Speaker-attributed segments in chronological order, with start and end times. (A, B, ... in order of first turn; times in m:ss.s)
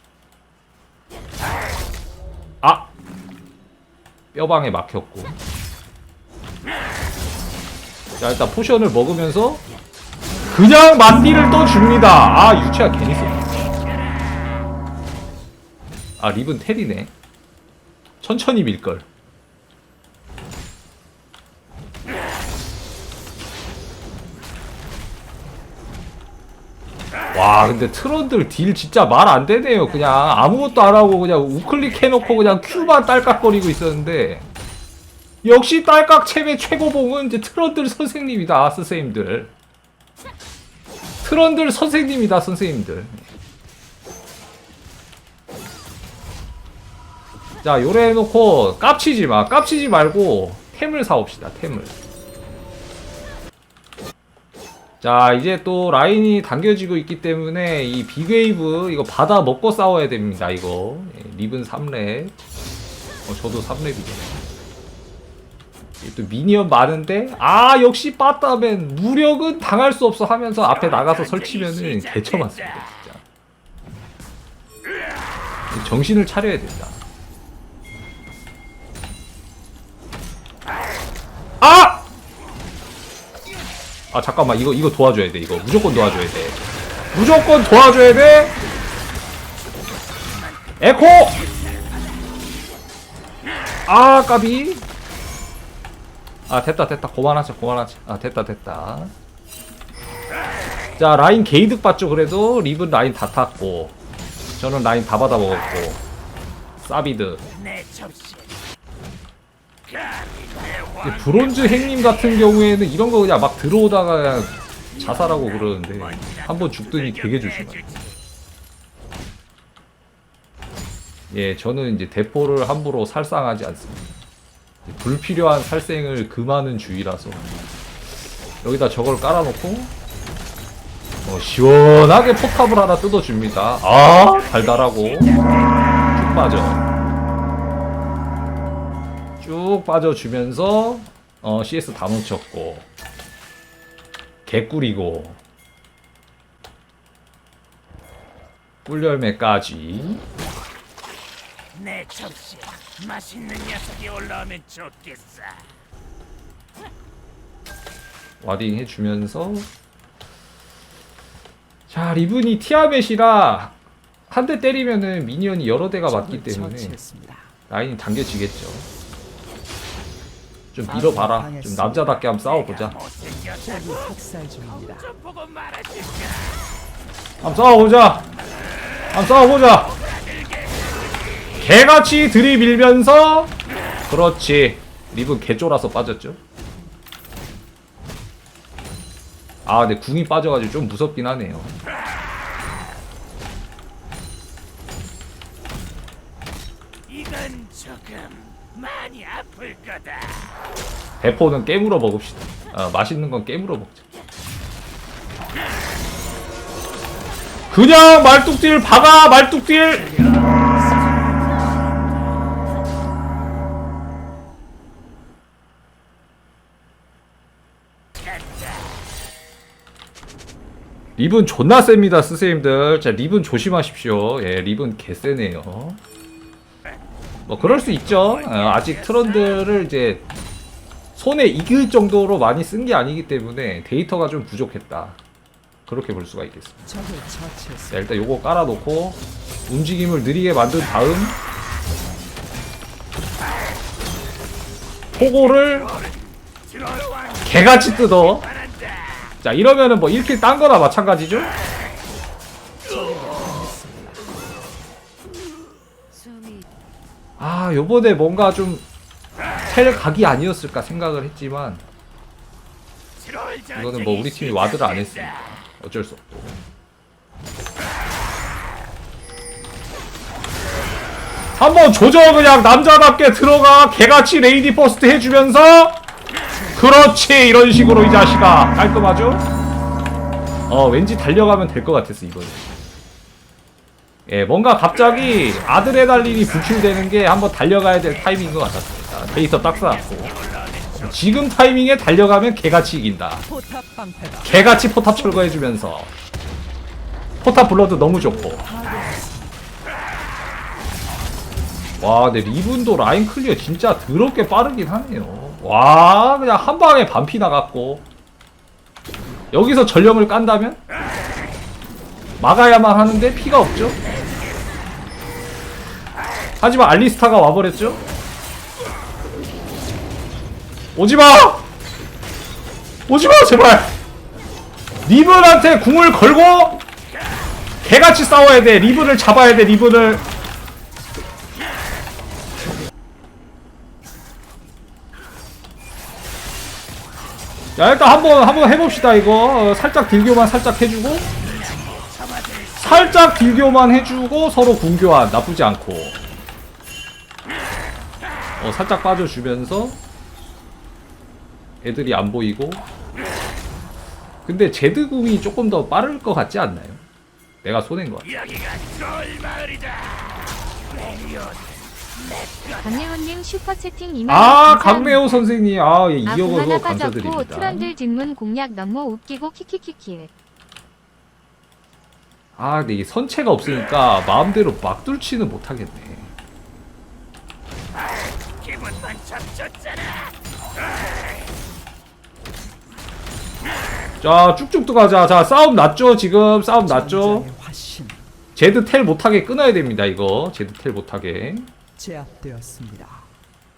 0:02.6-0:02.9 A
0:04.3-0:05.4 A
0:08.2-0:09.6 A
0:10.3-0:11.8 B
0:10.5-0:13.5 A
0:13.4-0:13.8 C
0:16.2-0:17.1 A
0:18.2-0:19.0 A
0:27.3-0:34.4 A
0:31.8-0:33.7 C
0:35.4-0:39.5 A
0:41.2-0:43.2 A
0:47.6-0:51.9 A
0:55.0-1:02.3 A
1:03.3-1:04.4 A
1:06.0-1:13.2 A
1:10.6-1:13.1 C
1:15.7-1:17.0 A
1:21.6-1:22.0 A
1:24.1-1:26.6 A
1:27.1-1:28.6 A
1:30.8-1:32.5 C
1:30.8-1:31.4 A
1:33.9-1:34.8 A
1:36.5-1:39.1 A
1:41.0-1:44.0 A
1:44.6-1:46.0 A
1:46.8-1:47.4 A
1:47.5-1:48.6 C
1:49.8-1:52.5 C
1:51.0-1:57.8 A
1:54.9-1:58.3 C
2:01.3-2:04.1 A
2:04.8-2:07.4 A
2:08.6-2:09.9 A
2:11.2-2:15.4 A
2:14.1-2:16.2 C
2:16.1-2:16.8 A
2:19.4-2:22.9 A
2:24.5-2:25.4 A
2:28.9-2:30.2 A
2:31.7-2:35.8 C
2:38.4-2:39.7 A
2:41.9-2:43.7 A
2:44.3-2:47.0 A
2:46.1-2:47.5 B
2:47.7-2:48.9 A
2:50.7-2:53.0 A
2:50.9-2:52.1 B
2:52.3-2:54.1 C
2:53.6-2:55.1 B
2:54.6-2:56.8 C
2:57.4-2:58.3 A
2:59.1-2:59.9 A
2:59.7-3:01.7 C
3:01.6-3:03.5 A
3:04.1-3:06.4 A
3:09.7-3:11.7 A
3:17.1-3:20.5 C
3:21.2-3:24.0 A
3:27.7-3:30.2 A
3:30.0-3:31.5 B
3:38.4-3:38.7 C
3:41.2-3:46.0 A
3:47.5-3:50.3 A
3:47.6-3:49.7 C
3:51.2-3:55.2 A
3:55.9-3:56.8 A
3:56.8-3:58.1 B
3:57.9-4:01.4 A
4:05.2-4:05.9 A
4:05.5-4:09.4 C
4:07.4-4:08.5 A
4:09.4-4:11.5 A
4:12.8-4:14.3 B
4:17.4-4:18.9 A
4:19.7-4:21.8 A
4:23.2-4:25.6 C
4:23.8-4:26.6 A
4:31.6-4:36.0 A
4:36.5-4:36.9 B
4:36.8-4:39.5 A
4:40.7-4:42.7 A
4:44.3-4:50.3 A
4:45.1-4:47.0 B
4:49.6-4:51.2 C
4:50.9-4:53.4 A
4:53.5-4:55.8 B
4:54.4-4:56.1 A
4:57.4-4:58.7 A
4:58.0-4:59.7 B
5:02.0-5:08.0 A
5:09.5-5:10.8 A
5:12.4-5:14.0 A
5:16.6-5:18.0 A
5:21.0-5:21.7 A
5:23.1-5:24.0 A
5:25.1-5:26.8 A
5:27.8-5:30.2 A
5:37.8-5:41.3 A
5:41.5-5:43.3 C
5:42.8-5:46.2 A
5:48.6-5:50.0 A
5:51.8-5:52.8 A
5:54.4-5:57.0 A
5:57.6-5:58.3 A
5:58.2-6:03.1 C
6:02.8-6:05.4 D
6:04.3-6:07.9 A
6:06.2-6:10.3 D
6:12.6-6:16.3 A
6:18.3-6:21.4 C
6:24.2-6:27.5 A
6:26.8-6:28.2 B
6:28.6-6:31.7 A
6:32.0-6:33.3 B